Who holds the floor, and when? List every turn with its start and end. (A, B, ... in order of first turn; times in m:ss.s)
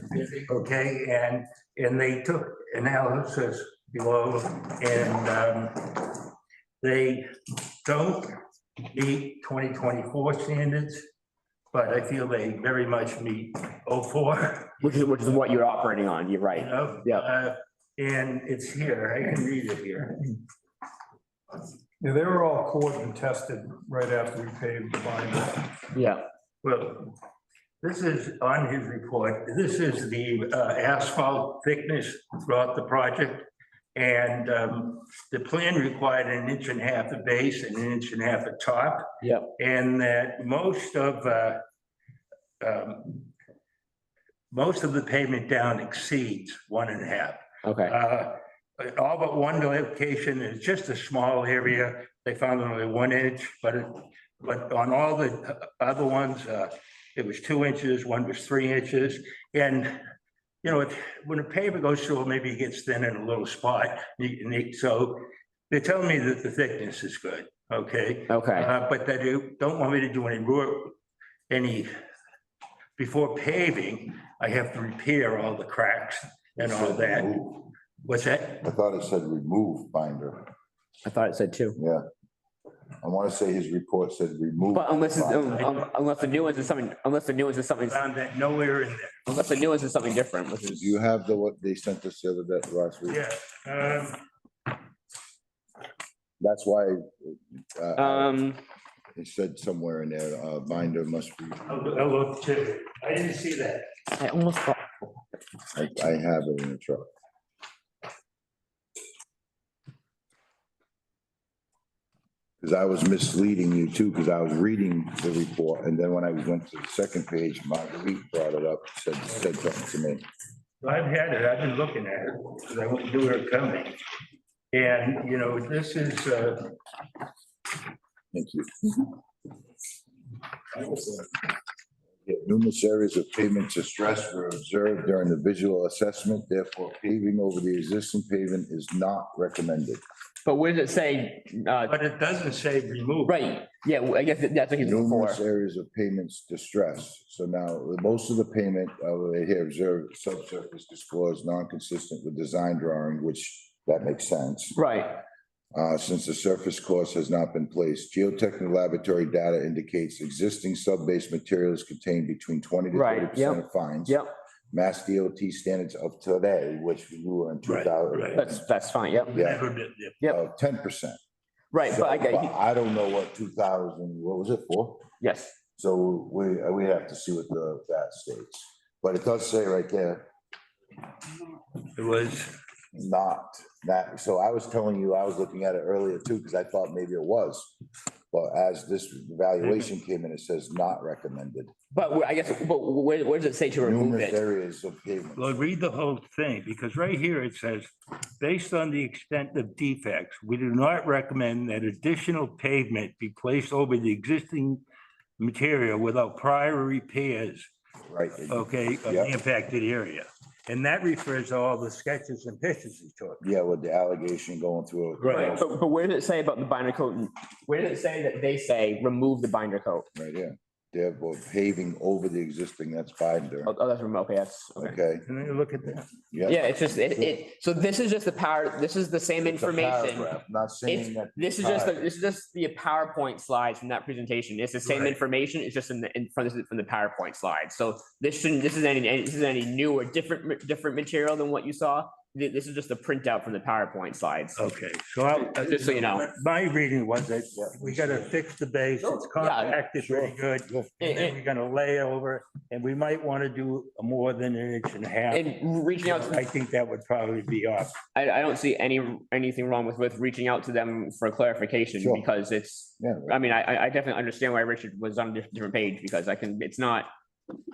0:00.1-0:06.3 A
0:06.8-0:07.3 A
0:07.8-0:08.3 A
0:08.8-0:11.0 A
0:11.7-0:14.8 A
0:14.8-0:17.3 B
0:16.5-0:20.4 A
0:22.0-0:25.8 C
0:25.9-0:26.2 B
0:26.6-0:27.2 A
0:27.8-0:41.6 A
0:39.2-0:39.5 B
0:42.6-0:43.3 A
0:44.5-1:00.0 A
0:47.6-0:48.0 B
1:00.6-1:10.9 A
1:08.3-1:08.7 B
1:11.5-1:11.9 A
1:13.0-1:17.4 A
1:16.6-1:17.7 D
1:18.0-1:18.6 A
1:18.6-1:20.5 D
1:21.0-1:21.8 B
1:21.8-1:22.0 D
1:23.0-1:25.7 D
1:24.7-1:28.0 B
1:25.6-1:26.7 A
1:27.8-1:29.2 A
1:29.3-1:31.0 B
1:30.6-1:33.2 D
1:33.1-1:34.2 A
1:36.4-1:38.4 D
1:38.0-1:38.6 B
1:39.2-1:42.0 D
1:41.7-1:43.9 A
1:44.1-1:44.9 B
1:45.7-1:47.1 D
1:52.6-2:00.2 D
2:00.8-2:04.0 A
2:04.7-2:06.8 A
2:08.3-2:09.1 D
2:10.8-2:11.4 D
2:12.2-2:20.0 D
2:20.4-2:21.9 B
2:21.9-2:23.4 A
2:23.3-2:25.4 B
2:24.8-2:34.8 D
2:34.8-2:35.2 B
2:35.7-2:44.2 D
2:42.9-2:44.3 B
2:44.7-2:48.6 D
2:47.6-2:48.4 A
2:48.3-2:49.4 B
2:49.3-2:49.6 D
2:49.3-2:50.2 A
2:50.2-2:51.2 D
2:51.7-2:52.5 B
2:51.8-2:55.0 D
2:55.2-2:55.5 B
2:55.8-3:00.3 D
3:02.0-3:02.5 A
3:02.9-3:07.8 D
3:08.3-3:11.7 D
3:11.9-3:14.4 B
3:13.8-3:15.6 D
3:15.4-3:24.8 A
3:25.4-3:27.7 A
3:28.1-3:29.3 D
3:28.5-3:33.4 A
3:33.4-3:35.7 D
3:35.2-3:35.6 A
3:35.3-3:40.1 B
3:40.2-3:43.7 D
3:43.6-3:45.0 B
3:44.8-3:45.3 D
3:45.3-3:46.1 A
3:46.0-3:47.4 D
3:46.5-3:50.3 B
3:49.4-3:52.0 D
3:50.9-4:04.6 B
3:54.8-3:55.2 A
4:04.6-4:18.0 A
4:05.4-4:06.3 B
4:07.6-4:08.3 D
4:09.0-4:09.8 B
4:10.0-4:11.1 D
4:11.0-4:11.4 B
4:15.3-4:16.4 B
4:18.1-4:27.1 B
4:22.0-4:22.3 D
4:23.0-4:23.4 D